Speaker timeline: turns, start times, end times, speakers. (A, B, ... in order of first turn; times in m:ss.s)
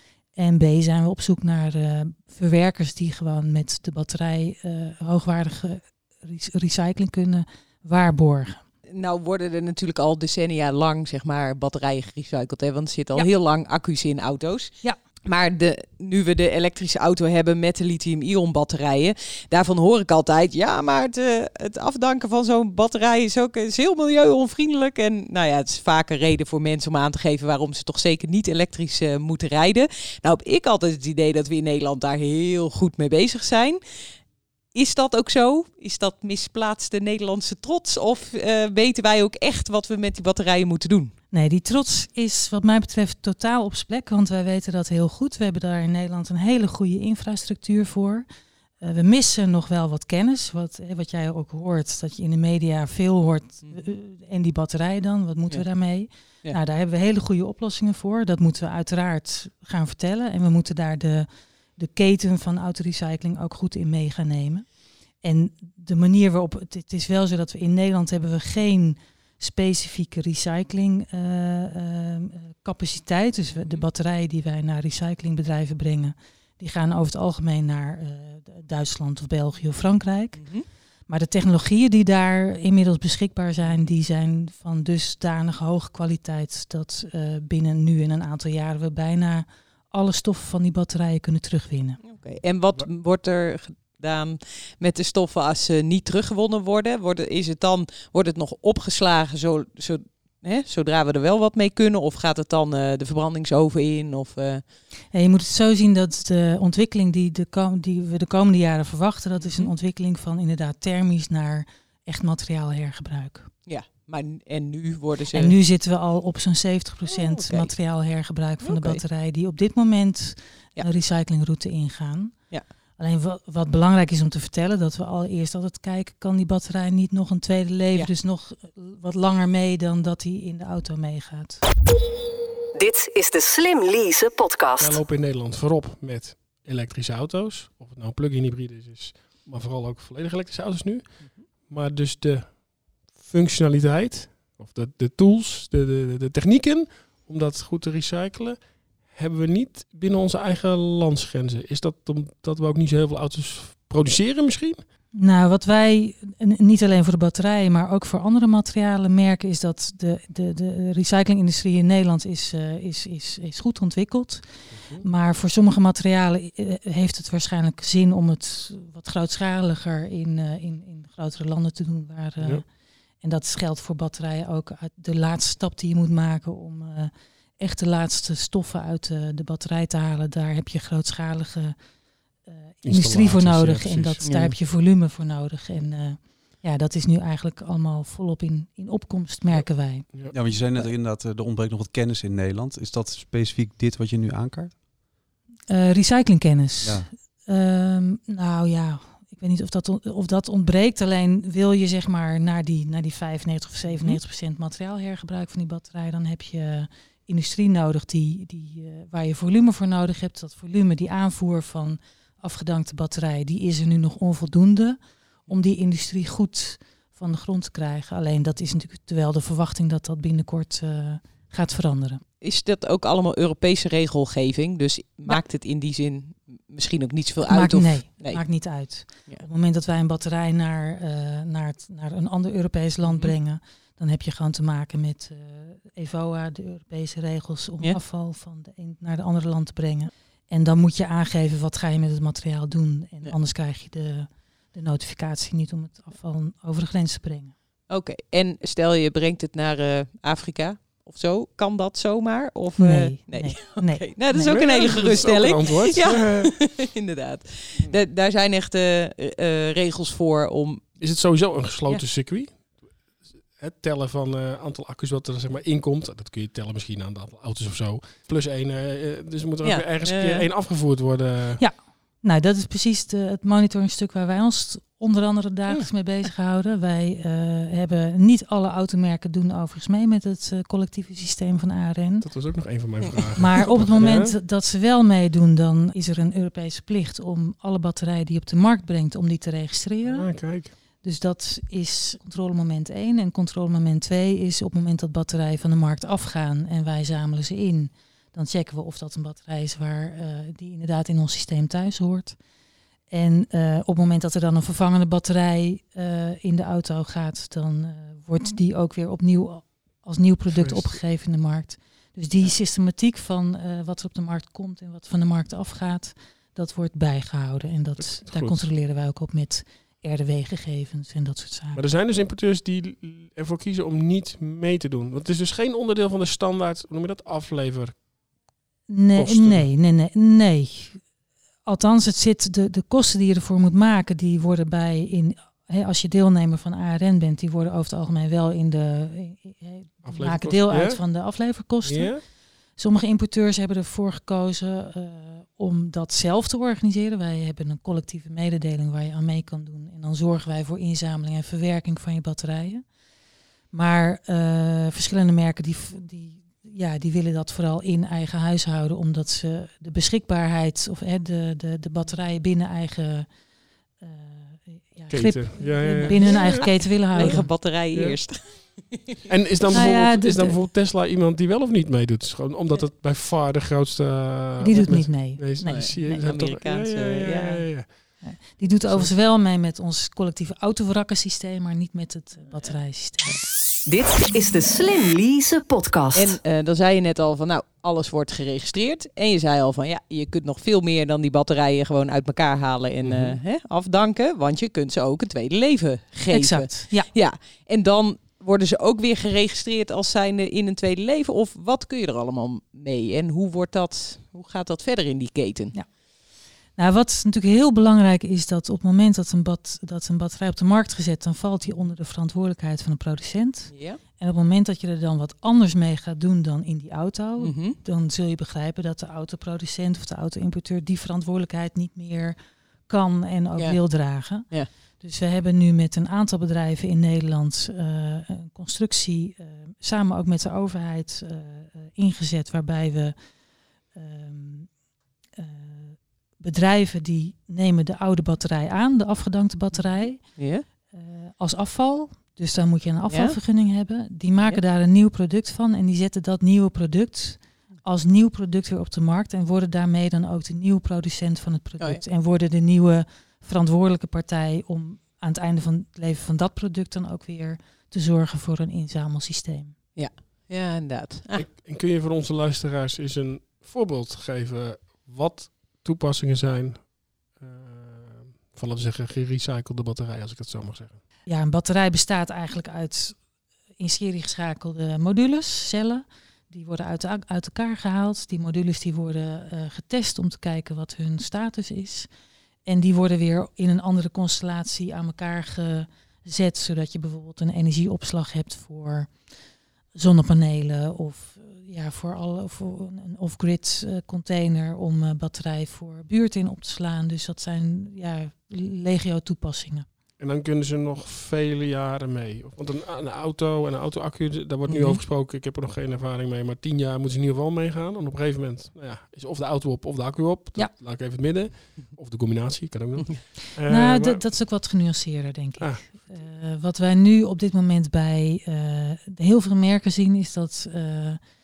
0:00.4-0:08.6 A
0:08.9-0:14.7 B
0:15.2-0:33.8 B
0:34.7-0:41.1 B
0:41.3-0:48.3 A
0:48.8-1:20.4 A
1:20.4-1:20.6 B
1:21.1-1:32.0 A
1:32.0-1:44.6 B
1:45.1-1:53.5 A
1:49.4-1:49.7 B
1:53.7-1:55.5 B
1:55.3-2:02.4 A
1:57.1-1:57.7 B
1:58.6-1:59.0 B
2:03.0-2:11.6 A
2:12.8-2:15.0 C
2:14.8-2:34.8 D
2:35.1-2:52.6 A
2:44.7-2:45.0 D
2:53.2-3:01.8 A
3:02.4-3:10.1 A
3:02.8-3:04.3 D
3:04.2-3:04.5 B
3:09.5-3:10.3 D
3:10.3-3:14.8 E
3:15.7-3:42.2 A
3:16.8-3:17.1 E
3:42.4-3:49.4 B
3:47.5-4:07.5 A
3:53.1-3:53.3 B
4:07.9-4:20.9 B
4:12.8-4:14.6 A
4:14.3-4:16.5 D
4:21.0-4:31.6 D
4:29.6-4:30.5 B
4:31.6-4:42.3 A
4:42.2-4:44.4 D
4:43.4-4:50.3 A
4:50.0-4:50.7 D
4:51.0-5:02.4 A
5:03.1-5:21.8 A
5:10.5-5:11.0 D
5:18.0-5:18.7 D
5:21.8-5:28.1 D
5:28.9-5:31.0 A
5:29.1-5:29.7 D
5:31.6-5:52.8 A
5:40.0-5:41.2 D
5:41.8-5:42.2 D
5:53.7-6:03.3 A
6:04.0-6:07.5 A
6:05.1-6:08.2 D
6:06.2-6:09.1 B
6:09.3-6:18.2 D
6:09.7-6:10.6 A
6:14.6-6:16.1 A
6:15.6-6:17.9 B
6:18.2-6:23.4 A
6:18.9-6:19.1 D
6:23.9-6:26.4 C
6:26.1-6:45.8 B
6:33.0-6:33.4 D
6:36.3-6:37.1 A
6:46.8-7:13.1 A
6:53.7-6:54.0 B
6:57.4-6:57.8 B
7:03.6-7:04.7 B
7:13.9-7:14.7 A
7:15.4-7:20.4 A
7:20.2-7:20.6 B
7:20.9-7:39.8 A
7:23.1-7:23.4 B
7:40.0-7:41.4 B
7:41.3-7:51.0 D
7:51.2-7:53.2 A
7:53.8-8:02.1 A
8:02.6-8:09.1 A
8:09.9-8:19.9 A
8:20.2-8:34.3 D
8:24.7-8:25.0 B
8:33.7-8:41.2 A
8:35.6-8:35.9 D